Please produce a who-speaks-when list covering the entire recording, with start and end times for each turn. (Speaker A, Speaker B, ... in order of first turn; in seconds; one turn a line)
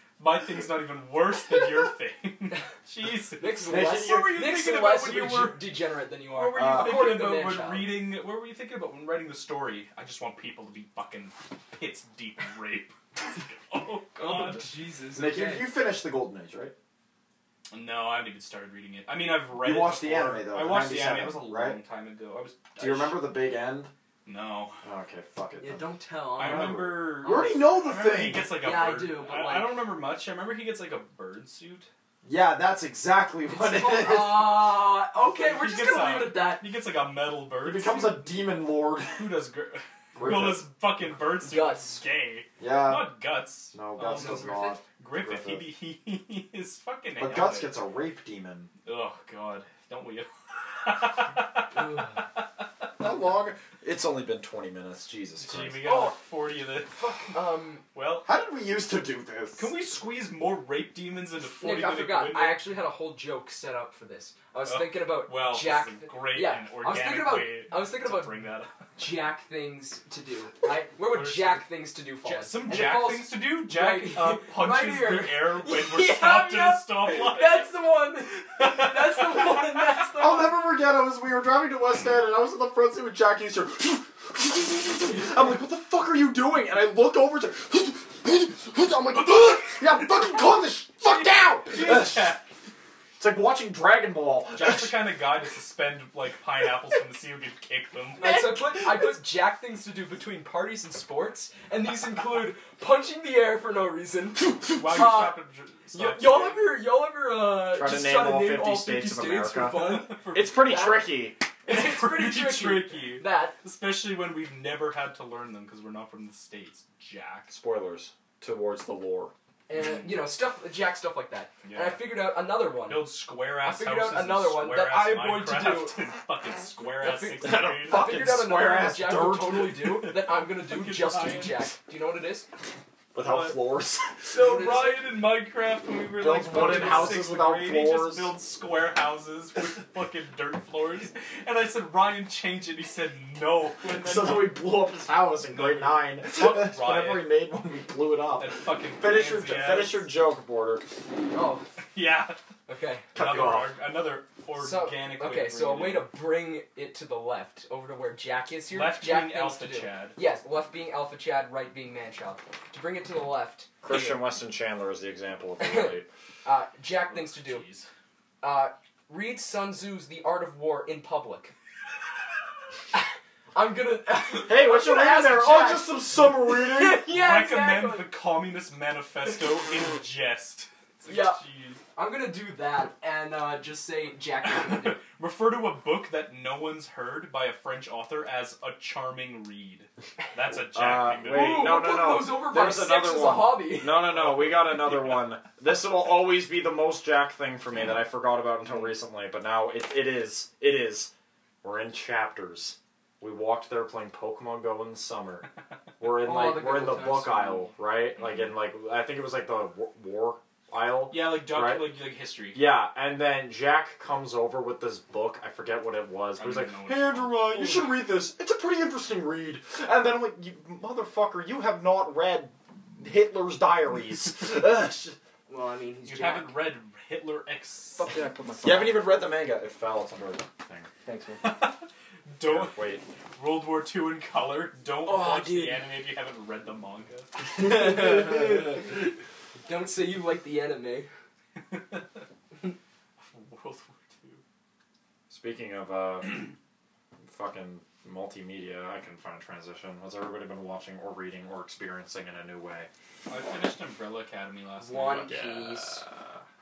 Speaker A: 0.2-5.6
Speaker B: 3.4-8.0
Speaker C: 3.7-4.5
Speaker A: 6.3-14.7
Speaker C: 6.5-7.1
Speaker B: 14.2-15.7
Speaker C: 15.1-16.7
Speaker A: 17.7-23.2
Speaker C: 19.5-21.8
Speaker C: 22.8-23.9
Speaker A: 24.2-24.8
Speaker C: 24.8-25.9
Speaker B: 25.6-27.7
Speaker A: 26.4-31.9
Speaker C: 26.4-28.6
Speaker B: 28.6-29.8
Speaker C: 32.2-34.7
Speaker B: 33.5-36.6
Speaker A: 35.1-38.4
Speaker C: 37.6-39.4
Speaker A: 39.1-47.7
Speaker C: 40.1-40.6
Speaker B: 41.4-42.0
Speaker C: 42.6-43.1
Speaker C: 43.7-45.6
Speaker B: 44.0-44.8
Speaker C: 47.2-48.7
Speaker A: 48.8-52.4
Speaker B: 51.7-52.1
Speaker C: 53.0-55.9
Speaker A: 55.4-57.4
Speaker B: 55.8-56.2
Speaker B: 56.9-57.8
Speaker A: 57.9-58.3
Speaker C: 58.2-59.7
Speaker A: 59.5-62.6
Speaker B: 61.6-80.6
Speaker A: 64.6-68.8
Speaker A: 71.1-71.6
Speaker A: 72.2-77.8
Speaker A: 78.3-80.0
Speaker C: 80.1-92.3
Speaker A: 91.0-92.4
Speaker C: 93.2-95.2
Speaker A: 94.5-98.6
Speaker B: 98.2-105.4
Speaker A: 104.6-106.8
Speaker B: 105.9-111.1
Speaker C: 107.7-111.4
Speaker A: 109.6-111.0
Speaker A: 111.6-117.5
Speaker B: 111.7-113.6
Speaker C: 117.5-119.3
Speaker B: 119.7-126.0
Speaker A: 119.7-120.3
Speaker A: 121.6-122.1
Speaker A: 122.8-128.2
Speaker B: 127.0-132.5
Speaker C: 127.4-129.9
Speaker A: 129.6-131.7
Speaker C: 133.1-134.3
Speaker A: 133.2-133.6
Speaker A: 134.3-144.6
Speaker B: 134.3-135.0
Speaker C: 136.2-138.3
Speaker B: 136.5-137.2
Speaker C: 143.9-150.8
Speaker A: 145.4-147.3
Speaker A: 148.4-150.1
Speaker B: 151.3-151.6
Speaker A: 151.9-152.4
Speaker B: 152.7-153.1
Speaker C: 153.1-153.8
Speaker A: 153.1-156.1
Speaker B: 154.6-163.7
Speaker A: 158.7-160.2
Speaker C: 163.8-166.1
Speaker B: 165.6-167.6
Speaker A: 167.1-167.9
Speaker B: 168.4-171.5
Speaker B: 173.5-178.1
Speaker C: 174.4-177.1
Speaker A: 177.0-181.8
Speaker B: 181.1-181.4
Speaker B: 181.9-185.0
Speaker A: 184.4-191.7
Speaker C: 190.6-201.1
Speaker B: 191.2-194.0
Speaker A: 193.9-195.2
Speaker C: 201.6-205.4
Speaker C: 206.0-211.9
Speaker B: 206.1-207.7
Speaker A: 208.1-208.6
Speaker A: 211.1-212.6
Speaker C: 212.5-225.2
Speaker A: 216.3-218.1
Speaker B: 225.5-226.7
Speaker A: 226.0-228.1
Speaker B: 228.0-229.1
Speaker C: 228.6-230.9
Speaker B: 231.0-231.4
Speaker A: 231.4-237.3
Speaker C: 232.4-233.0
Speaker B: 235.0-235.8
Speaker B: 237.5-239.0
Speaker B: 239.6-241.1
Speaker A: 241.6-242.2
Speaker A: 243.2-244.4
Speaker C: 245.3-246.5
Speaker C: 247.2-252.9
Speaker A: 253.3-255.9
Speaker B: 254.8-256.0